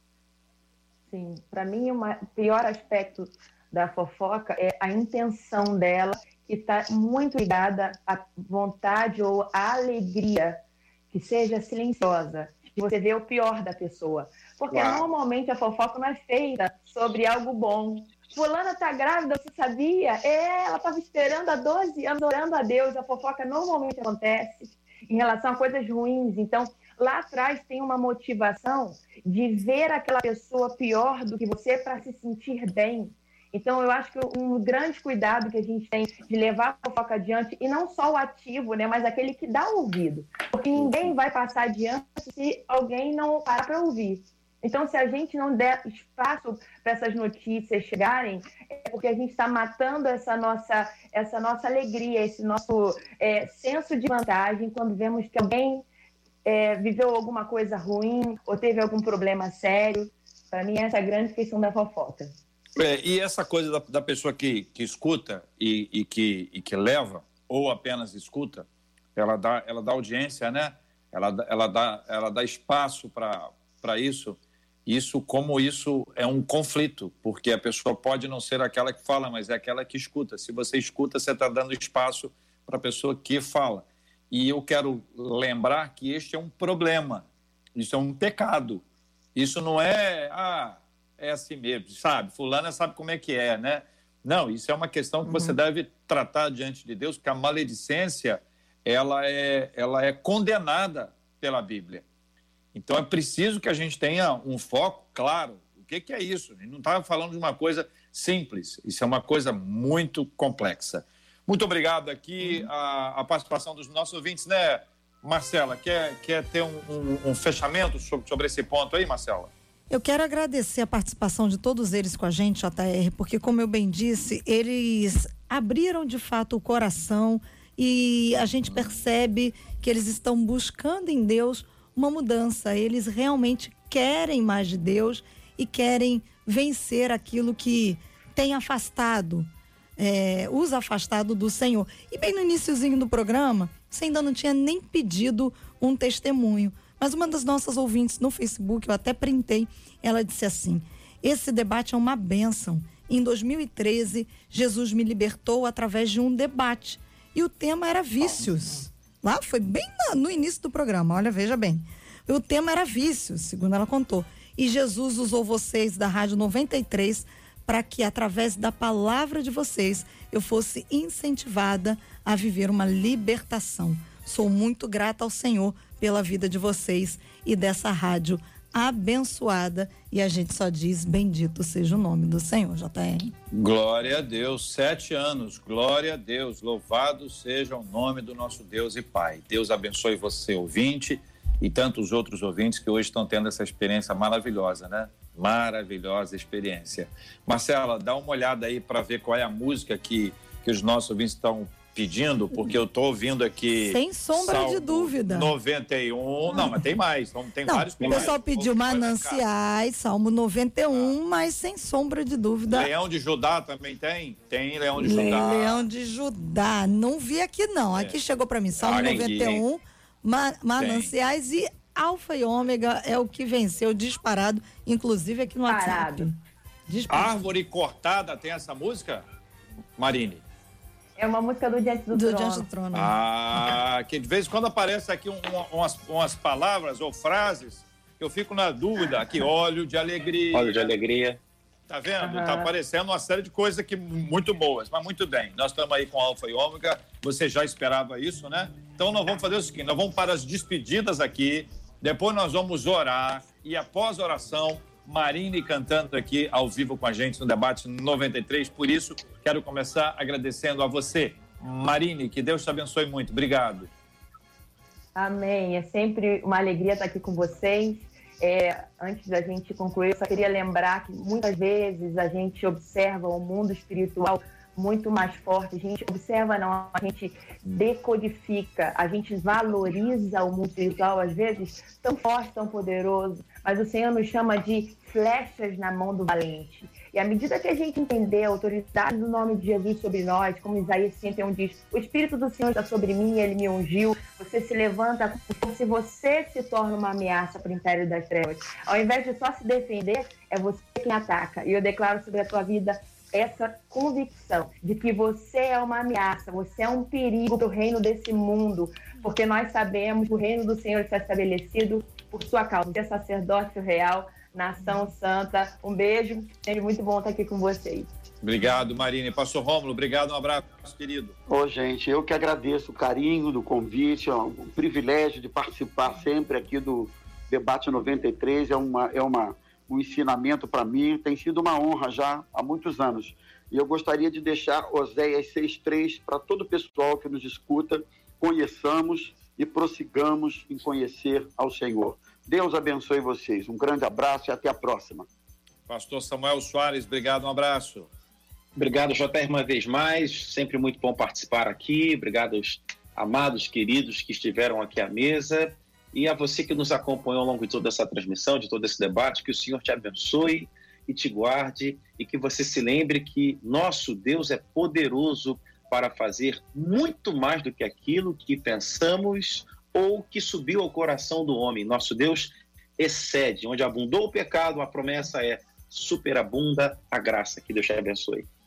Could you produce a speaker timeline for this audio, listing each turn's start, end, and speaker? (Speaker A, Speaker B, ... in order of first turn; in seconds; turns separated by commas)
Speaker A: 1.1-10.6, Speaker A: 11.1-55.9, Speaker B: 14.7-15.1, Speaker A: 56.5-62.3, Speaker C: 62.8-88.8, Speaker C: 89.3-102.0, Speaker A: 95.2-95.6, Speaker C: 102.7-119.5, Speaker D: 119.9-183.3, Speaker C: 183.5-209.4, Speaker D: 203.7-205.5, Speaker D: 206.5-206.8, Speaker D: 207.7-212.9, Speaker B: 208.0-208.3, Speaker C: 210.9-211.2, Speaker C: 212.7-215.9, Speaker D: 215.0-226.3, Speaker C: 218.8-219.6, Speaker B: 218.9-219.3, Speaker C: 220.8-221.1, Speaker A: 225.7-226.3, Speaker D: 226.9-227.5, Speaker C: 227.1-229.2, Speaker C: 230.0-230.4, Speaker A: 231.2-232.7, Speaker D: 232.1-233.8, Speaker C: 232.9-240.9, Speaker B: 240.5-241.4, Speaker C: 241.9-263.9, Speaker A: 242.2-242.7, Speaker A: 265.2-318.1, Speaker C: 318.4-321.4, Speaker E: 321.5-345.3, Speaker C: 345.9-348.1, Speaker B: 348.8-378.5